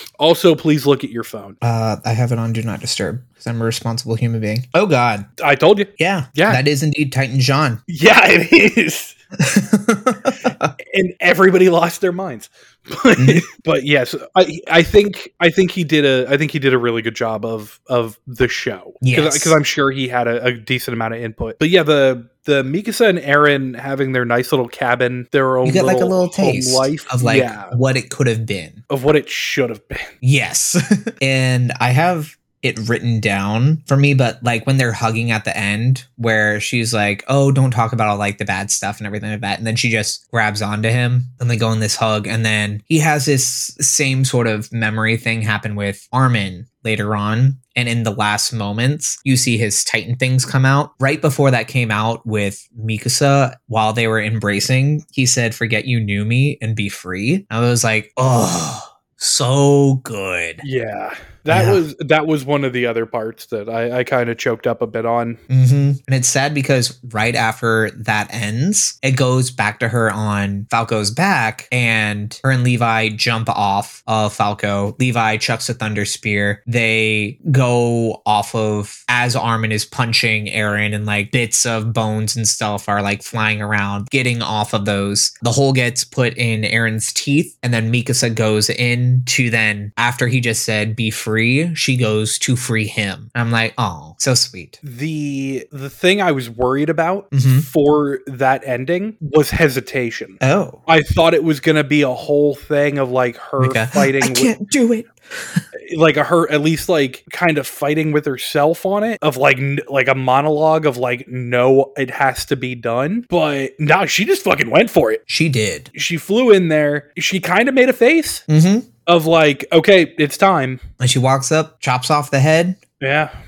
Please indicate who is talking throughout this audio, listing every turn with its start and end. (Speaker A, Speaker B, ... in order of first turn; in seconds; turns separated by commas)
Speaker A: 0.2-1.6, Speaker B: 1.6-5.3, Speaker A: 5.4-6.6, Speaker B: 6.0-7.8, Speaker A: 7.9-9.2, Speaker B: 9.4-10.7, Speaker A: 10.8-27.8, Speaker B: 13.2-13.5, Speaker B: 19.0-19.6, Speaker B: 25.6-28.8, Speaker A: 28.9-30.1, Speaker B: 30.2-60.6, Speaker A: 60.6-65.4, Speaker B: 61.5-61.8, Speaker B: 65.5-94.8, Speaker A: 94.8-104.5, Speaker B: 97.3-97.7, Speaker B: 100.4-100.8, Speaker B: 103.6-105.6, Speaker A: 105.8-115.2, Speaker B: 115.3-115.9, Speaker A: 115.9-118.4, Speaker B: 118.5-118.9, Speaker A: 119.0-120.8, Speaker B: 121.0-122.8, Speaker A: 123.0-123.3